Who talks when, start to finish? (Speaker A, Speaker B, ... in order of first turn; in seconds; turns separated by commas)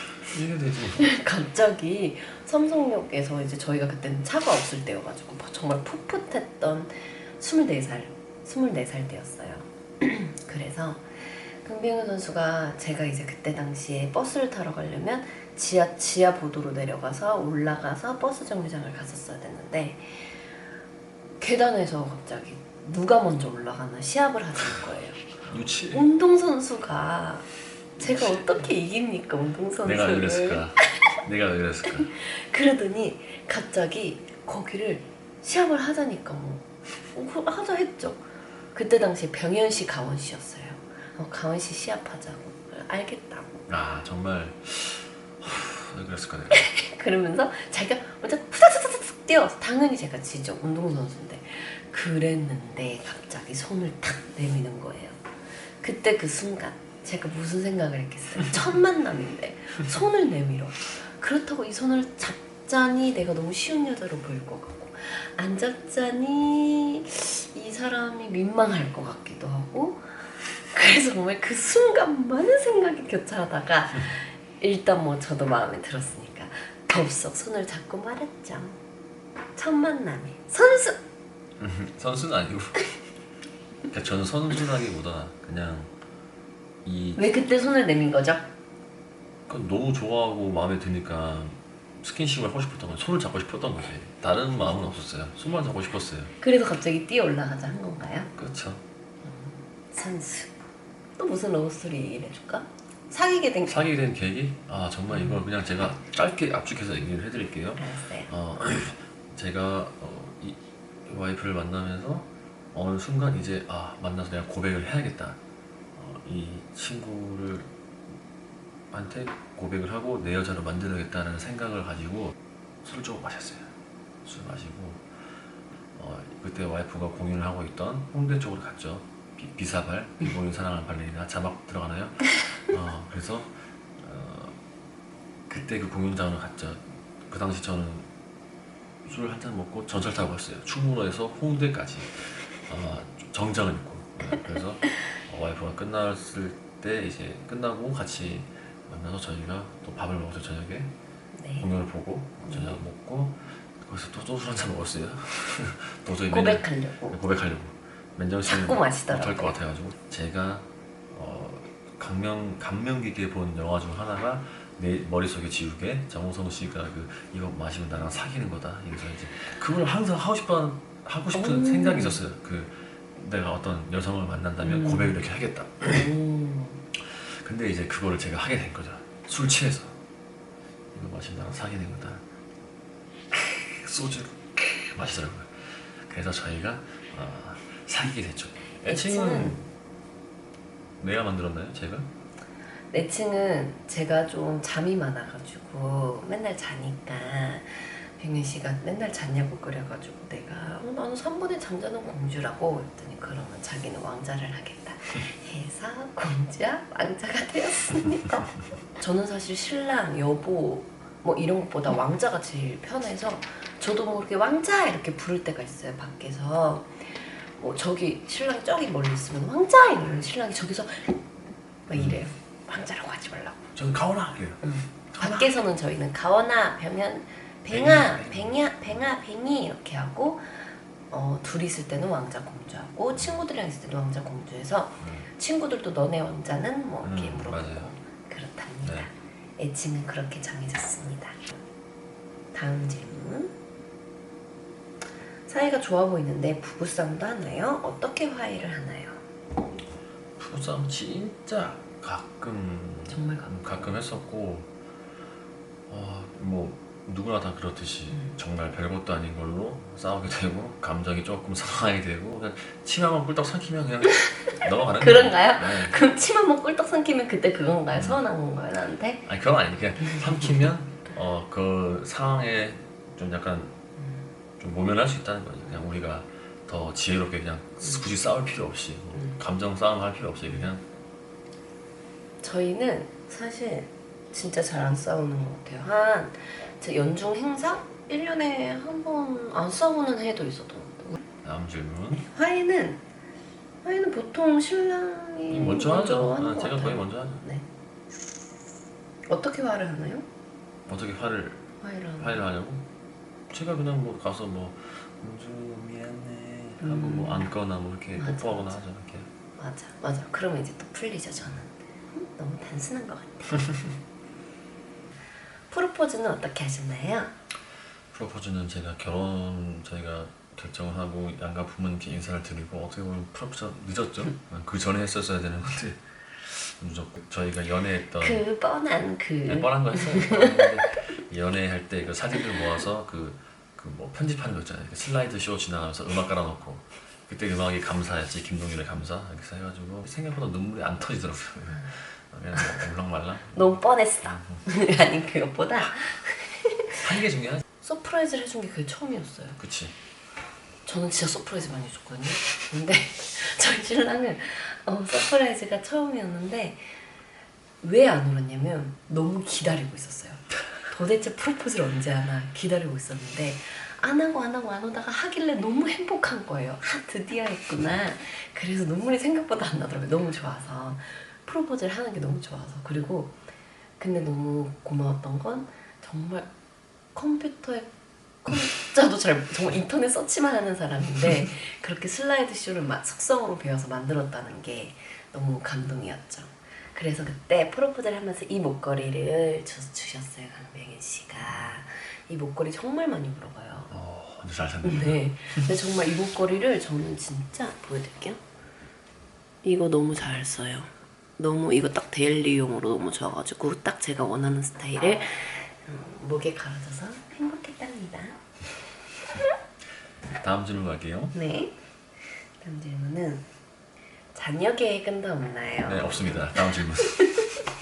Speaker A: 0.2-1.1, Speaker B: 1.0-20.2, Speaker B: 21.4-25.3, Speaker A: 25.4-26.0, Speaker B: 25.9-30.7, Speaker A: 28.0-28.7, Speaker A: 29.8-32.1, Speaker B: 31.9-43.6, Speaker A: 43.7-46.6, Speaker B: 46.5-55.2, Speaker B: 55.8-70.0, Speaker B: 70.7-78.8, Speaker B: 79.5-81.0, Speaker A: 81.6-82.9, Speaker A: 83.9-85.9, Speaker A: 86.8-87.3, Speaker B: 87.2-88.5, Speaker A: 89.5-96.3, Speaker B: 96.4-98.3, Speaker A: 98.3-98.8, Speaker B: 99.2-100.5, Speaker B: 101.2-103.8, Speaker A: 103.6-115.4, Speaker B: 105.1-105.4, Speaker B: 107.8-108.3, Speaker A: 115.9-117.7, Speaker A: 118.9-123.7, Speaker A: 124.2-125.1, Speaker A: 126.0-134.6, Speaker A: 135.5-138.1, Speaker A: 139.0-150.9, Speaker B: 151.3-151.7, Speaker A: 151.6-176.1, Speaker B: 152.4-152.8, Speaker B: 156.3-157.2, Speaker B: 158.5-159.6, Speaker B: 171.3-172.2, Speaker B: 174.6-175.2, Speaker B: 175.9-176.8, Speaker A: 176.9-180.0, Speaker A: 180.9-182.2, Speaker A: 183.3-189.7, Speaker B: 188.9-189.6, Speaker A: 191.0-192.1, Speaker B: 192.9-221.2, Speaker B: 221.9-223.6, Speaker A: 221.9-222.2, Speaker A: 223.7-225.6, Speaker B: 224.6-241.5, Speaker A: 227.7-228.7, Speaker A: 235.0-235.3, Speaker A: 237.0-237.9, Speaker B: 242.5-243.5, Speaker B: 245.5-249.2, Speaker A: 250.4-254.7, Speaker B: 253.1-253.9, Speaker A: 255.9-266.0, Speaker B: 258.1-258.4, Speaker B: 264.3-269.2, Speaker A: 267.9-268.2, Speaker A: 269.2-273.8, Speaker B: 270.0-270.5, Speaker B: 274.0-274.2, Speaker A: 274.6-280.8, Speaker B: 279.1-279.4, Speaker B: 282.4-291.2, Speaker A: 291.4-292.2, Speaker B: 292.2-293.0, Speaker B: 293.8-297.6, Speaker A: 295.5-297.4, Speaker B: 299.3-300.3, Speaker A: 300.9-301.6, Speaker B: 301.8-302.4, Speaker A: 302.2-302.8, Speaker A: 303.5-309.3, Speaker B: 306.8-307.5, Speaker B: 308.2-308.8, Speaker B: 309.6-313.8, Speaker B: 315.7-317.3, Speaker A: 318.1-328.4, Speaker B: 328.2-330.9, Speaker A: 329.4-344.6, Speaker B: 342.5-342.9, Speaker B: 343.5-347.0, Speaker A: 347.0-347.6, Speaker B: 347.8-349.6, Speaker A: 349.6-349.9, Speaker B: 350.9-357.0, Speaker B: 357.8-373.4, Speaker B: 374.0-376.5, Speaker B: 377.1-377.9, Speaker B: 378.4-393.9, Speaker A: 393.9-395.7, Speaker B: 394.8-398.4, Speaker B: 399.6-408.4, Speaker A: 410.4-411.3, Speaker B: 411.3-411.8, Speaker B: 412.6-413.4, Speaker B: 414.3-417.5, Speaker A: 415.9-417.4